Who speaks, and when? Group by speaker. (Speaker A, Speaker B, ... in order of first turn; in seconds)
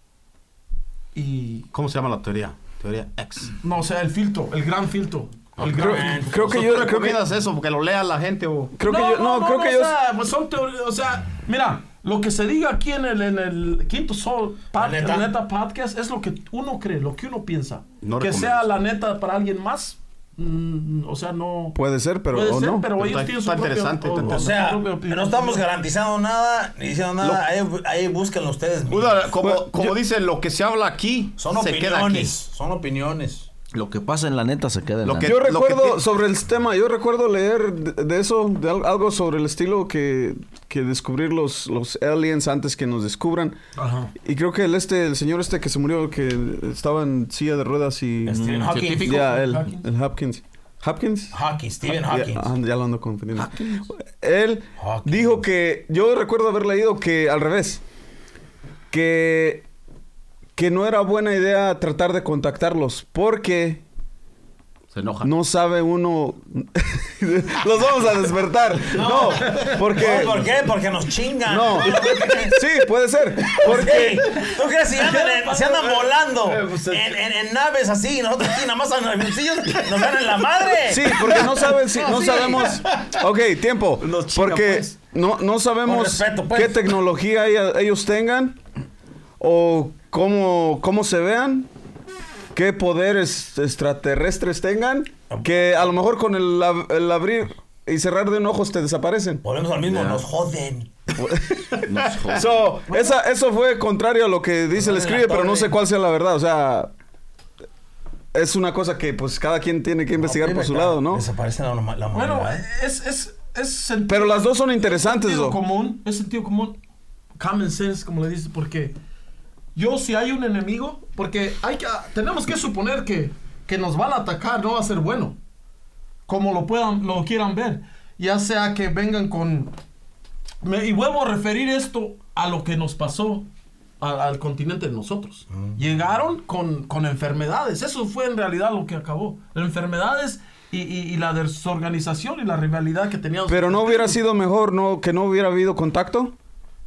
Speaker A: 1.1-1.7, 3.6-6.6, 8.8-21.8, 22.3-25.6, 43.8-44.1, 48.8-49.9, 53.4-53.8, 69.3-69.8, 74.9-76.1, 81.9-82.8, 112.1-116.8, 117.4-119.0, 119.7-125.4, 126.3-129.7, 130.6-133.5, 134.0-144.2
Speaker B: 1.7-3.5, 6.5-8.7, 18.0-18.6, 22.9-24.4, 28.9-32.3, 35.0-36.0, 64.9-65.3, 76.4-77.2, 81.2-83.2, 84.0-84.9, 102.1-102.4
Speaker C: 5.6-6.5, 14.7-15.3, 24.3-29.3, 31.4-33.5, 48.2-49.2, 51.3-52.5, 54.8-55.4, 68.9-72.6, 73.6-81.2, 85.8-86.9, 95.3-95.6, 99.4-101.2, 104.8-105.7, 110.2-112.7
Speaker D: 5.7-7.2, 8.7-9.9, 21.7-22.9, 29.4-29.9, 35.2-43.6, 44.1-57.8, 58.9-59.7, 60.5-63.8, 65.2-70.5, 71.5-71.9, 72.5-74.2, 80.9-88.6, 89.4-91.7, 92.5-99.4, 101.2-106.9, 108.3-111.2, 114.1-115.6, 143.5-146.3
Speaker E: 33.7-35.3, 48.3-49.1, 99.8-100.2, 101.8-102.8